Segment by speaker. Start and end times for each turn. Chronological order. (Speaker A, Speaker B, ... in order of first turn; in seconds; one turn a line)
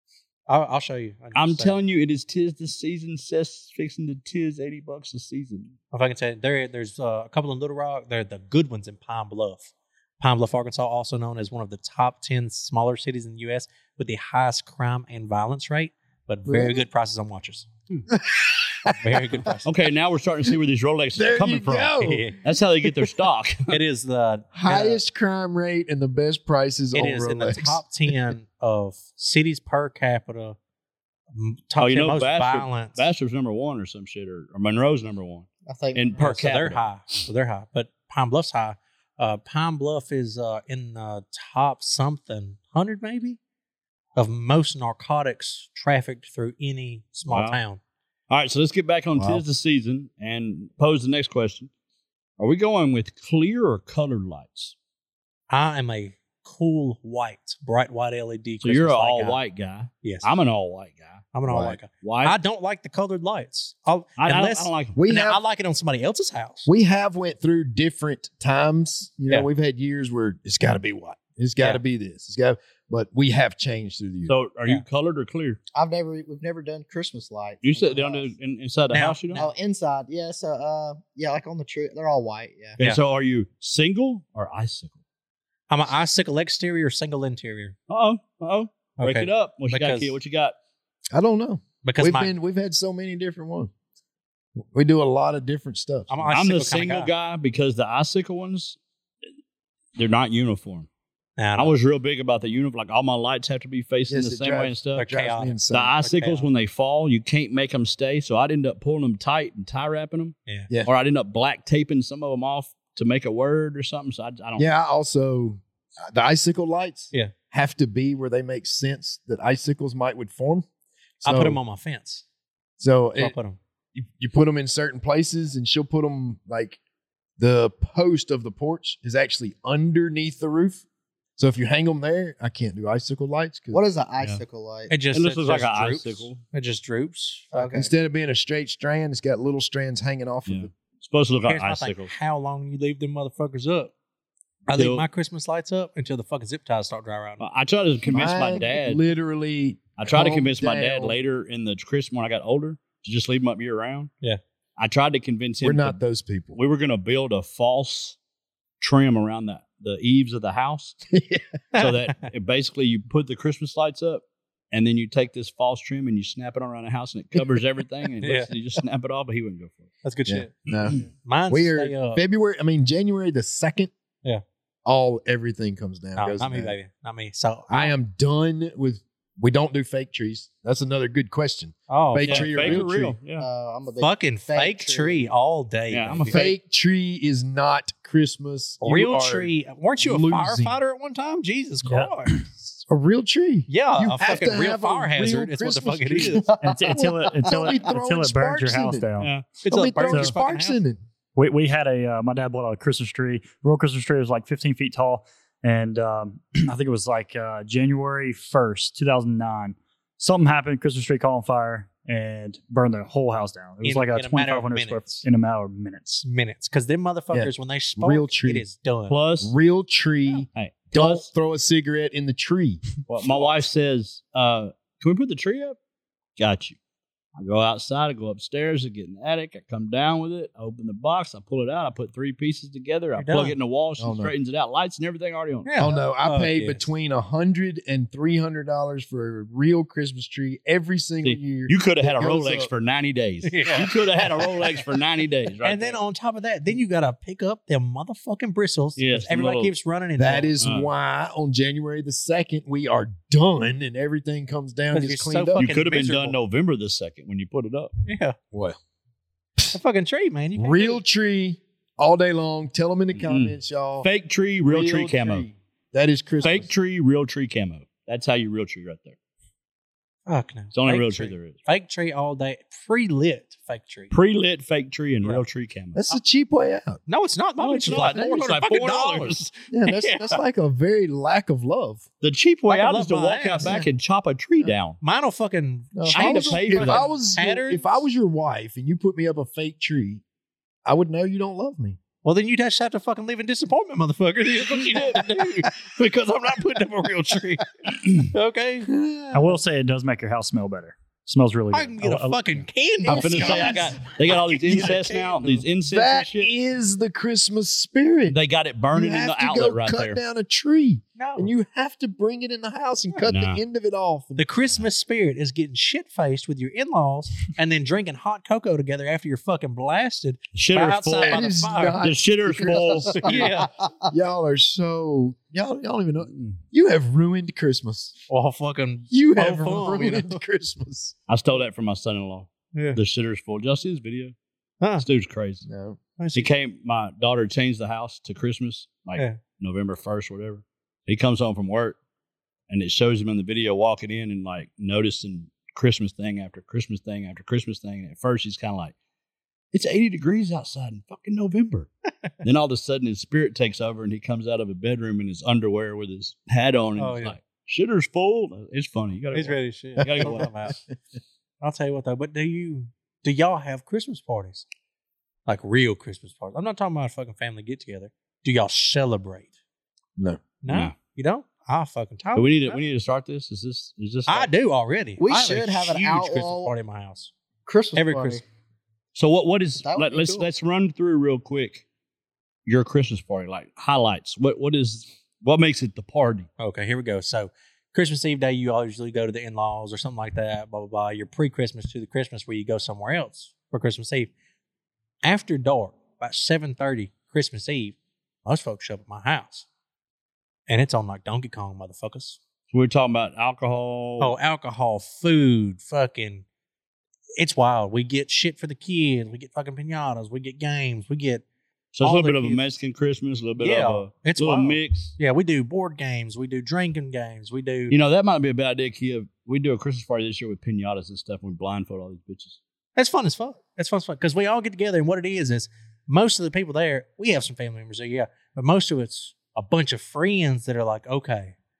Speaker A: 0.5-1.8
Speaker B: 1.4-5.8
Speaker A: 5.9-17.7
Speaker C: 16.5-16.8
Speaker C: 18.1-19.2
Speaker A: 19.0-19.7
Speaker B: 19.6-23.8
Speaker C: 21.1-22.4
Speaker A: 22.0-22.4
Speaker A: 23.7-25.0
Speaker C: 24.6-28.3
Speaker A: 26.9-30.6
Speaker A: 31.3-33.1
Speaker B: 31.8-36.8
Speaker D: 35.7-36.2
Speaker A: 36.2-43.4
Speaker A: 44.2-47.8
Speaker B: 47.3-47.6
Speaker B: 48.3-51.7
Speaker C: 49.2-49.4
Speaker B: 52.4-54.7
Speaker A: 55.5-59.4
Speaker B: 58.6-61.2
Speaker A: 60.0-60.3
Speaker A: 61.3-66.7
Speaker C: 61.5-61.8
Speaker B: 62.0-62.4
Speaker B: 64.2-65.0
Speaker C: 65.0-65.4
Speaker C: 66.7-74.3
Speaker B: 74.3-75.6
Speaker D: 75.8-78.3
Speaker B: 77.6-79.5
Speaker A: 78.9-79.5
Speaker D: 79.3-82.8
Speaker B: 82.8-85.0
Speaker A: 85.7-87.8
Speaker B: 87.9-90.6
Speaker A: 89.0-90.2
Speaker C: 91.1-93.7
Speaker A: 91.8-92.3
Speaker C: 94.6-96.3
Speaker A: 96.1-97.1
Speaker B: 96.3-98.8
Speaker B: 100.0-100.9
Speaker A: 101.4-101.7
Speaker B: 101.6-105.1
Speaker C: 104.1-106.0
Speaker A: 105.0-106.5
Speaker B: 105.7-114.7
Speaker C: 114.6-120.7
Speaker C: 121.2-121.6
Speaker A: 121.2-122.2
Speaker C: 122.8-123.4
Speaker A: 123.2-123.6
Speaker C: 124.0-126.8
Speaker C: 127.4-130.8
Speaker C: 131.4-133.8
Speaker D: 133.7-134.9
Speaker A: 134.9-137.8
Speaker B: 135.1-136.4
Speaker D: 137.5-137.9
Speaker C: 137.7-140.7
Speaker B: 140.5-142.1
Speaker A: 141.5-143.9
Speaker A: 144.7-147.4
Speaker B: 144.8-145.1
Speaker B: 147.4-149.0
Speaker C: 148.1-151.2
Speaker B: 150.0-154.1
Speaker B: 154.8-156.0
Speaker C: 155.6-156.6
Speaker B: 156.6-158.2
Speaker B: 158.8-161.0
Speaker C: 161.1-161.4
Speaker B: 161.7-169.9
Speaker A: 161.8-162.1
Speaker A: 168.2-168.5
Speaker A: 170.0-172.2
Speaker C: 170.3-173.9
Speaker C: 174.8-176.8
Speaker A: 176.2-177.9
Speaker C: 177.7-183.2
Speaker A: 181.9-182.6
Speaker B: 182.2-183.5
Speaker D: 183.4-185.2
Speaker A: 184.0-186.5
Speaker B: 185.9-186.5
Speaker C: 186.3-190.8
Speaker A: 188.8-192.4
Speaker E: 191.9-192.4
Speaker C: 192.9-201.0
Speaker A: 193.7-196.5
Speaker D: 196.5-197.0
Speaker E: 196.6-199.3
Speaker A: 199.7-200.8
Speaker E: 200.1-200.3
Speaker E: 201.4-216.2
Speaker A: 213.8-215.2
Speaker A: 216.2-219.2
Speaker C: 217.3-218.6
Speaker B: 219.1-219.5
Speaker C: 219.4-222.8
Speaker B: 220.5-221.3
Speaker B: 223.1-225.8
Speaker B: 226.4-226.8
Speaker B: 227.4-235.7
Speaker A: 233.2-233.6
Speaker C: 234.0-234.3
Speaker A: 235.7-236.8
Speaker C: 235.8-242.7
Speaker B: 241.2-246.0
Speaker A: 243.5-244.8
Speaker A: 245.6-250.5
Speaker B: 249.0-249.7
Speaker C: 250.2-255.7
Speaker B: 250.6-250.9
Speaker A: 254.9-256.4
Speaker B: 255.6-257.9
Speaker A: 258.1-258.4
Speaker C: 258.5-258.8
Speaker A: 259.7-261.0
Speaker C: 260.6-264.1
Speaker B: 263.2-265.5
Speaker C: 264.6-266.7
Speaker B: 266.4-269.2
Speaker A: 270.3-274.1
Speaker B: 270.7-271.6
Speaker B: 274.1-276.0
Speaker C: 275.9-277.0
Speaker A: 277.1-280.4
Speaker B: 277.6-279.5
Speaker C: 277.9-278.2
Speaker C: 279.7-282.0
Speaker B: 282.2-285.0
Speaker A: 282.7-283.8
Speaker C: 283.6-283.9
Speaker A: 285.0-288.0
Speaker C: 285.9-290.2
Speaker B: 286.1-287.1
Speaker C: 290.9-292.0
Speaker A: 292.2-298.9
Speaker B: 294.8-295.2
Speaker C: 298.9-299.6
Speaker E: 299.3-302.7
Speaker A: 301.7-305.6
Speaker B: 303.1-306.5
Speaker C: 303.1-304.0
Speaker C: 305.9-308.4
Speaker B: 308.3-310.2
Speaker C: 308.9-314.5
Speaker A: 311.2-311.5
Speaker B: 313.3-313.6
Speaker A: 314.4-322.1
Speaker B: 320.6-321.5
Speaker C: 321.2-328.1
Speaker B: 322.0-323.5
Speaker A: 322.7-323.7
Speaker A: 328.3-330.4
Speaker C: 329.1-331.1
Speaker B: 331.3-334.4
Speaker A: 332.7-333.0
Speaker B: 335.0-335.7
Speaker C: 335.7-336.0
Speaker A: 336.2-336.5
Speaker B: 336.3-342.0
Speaker B: 342.7-348.9
Speaker B: 349.7-351.9
Speaker B: 352.4-360.5
Speaker A: 357.0-357.4
Speaker A: 359.3-360.8
Speaker C: 360.0-360.7
Speaker A: 361.6-364.6
Speaker A: 365.5-369.5
Speaker C: 370.2-370.4
Speaker A: 370.6-372.8
Speaker B: 370.7-370.9
Speaker B: 372.4-374.5
Speaker A: 374.3-377.3
Speaker D: 375.2-376.7
Speaker D: 377.7-378.4
Speaker A: 377.9-378.4
Speaker B: 379.1-381.9
Speaker D: 379.8-380.5
Speaker B: 382.7-386.5
Speaker A: 386.6-394.3
Speaker A: 395.2-399.7
Speaker A: 400.7-402.4
Speaker B: 402.7-404.3
Speaker A: 404.2-406.4
Speaker A: 407.4-411.4
Speaker B: 411.9-415.1
Speaker A: 412.0-412.6
Speaker A: 413.6-417.9
Speaker B: 417.9-422.6
Speaker A: 423.0-431.6